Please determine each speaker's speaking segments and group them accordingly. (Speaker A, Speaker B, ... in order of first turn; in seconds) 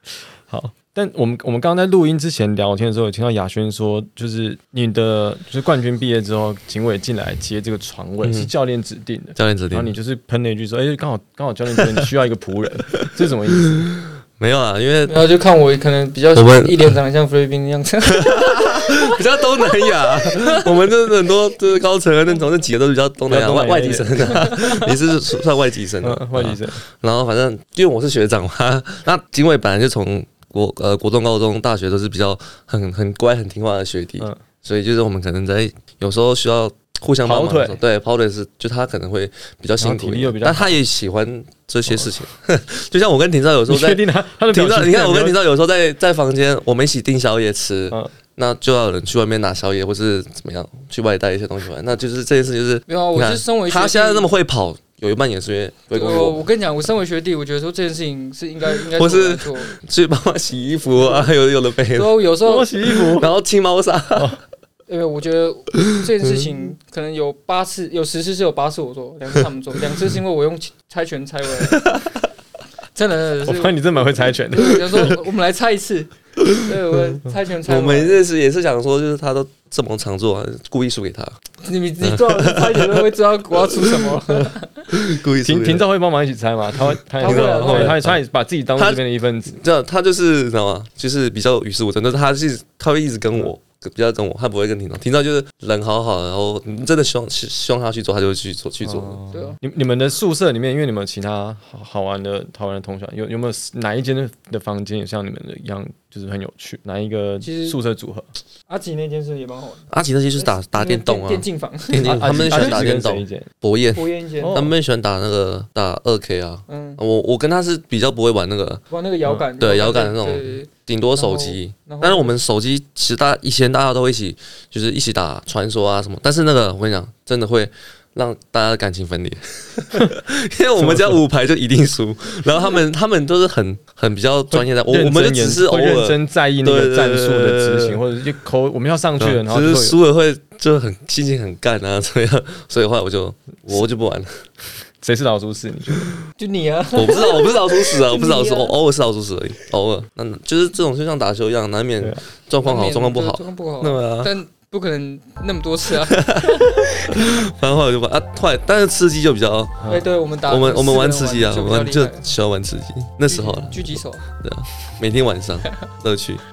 Speaker A: 0.5-13.8, 23.3-24.8, 26.0-26.8, 37.2-37.8, 39.8-40.8, 43.7-45.4, 62.4-63.3, 73.4-75.2, 85.4-89.6, 98.8-108.3, 112.0-113.5, 114.4-114.7, 130.8-131.2, 134.5-139.9, 145.0-146.1
Speaker B: 8.2-8.5, 9.3-9.9, 14.0-15.2, 16.3-16.9, 18.1-56.4, 58.9-62.2, 63.1-64.3, 77.7-81.4, 82.0-85.8, 87.2-88.2, 88.8-99.2, 109.9-118.8, 119.6-138.0, 139.2-144.4, 146.9-154.3, 156.1-159.8, 160.5-166.4
Speaker C: 15.1-20.7, 52.9-54.3, 55.9-59.7, 61.0-61.3, 61.9-63.2, 64.9-72.2, 72.9-78.2, 81.6-84.9, 87.2-88.0, 99.3-99.6, 107.4-107.8, 108.7-112.8, 114.0-114.7, 116.7-117.0, 118.9-122.3, 146.4-148.8, 152.6-157.4, 159.9-162.3, 163.3-164.2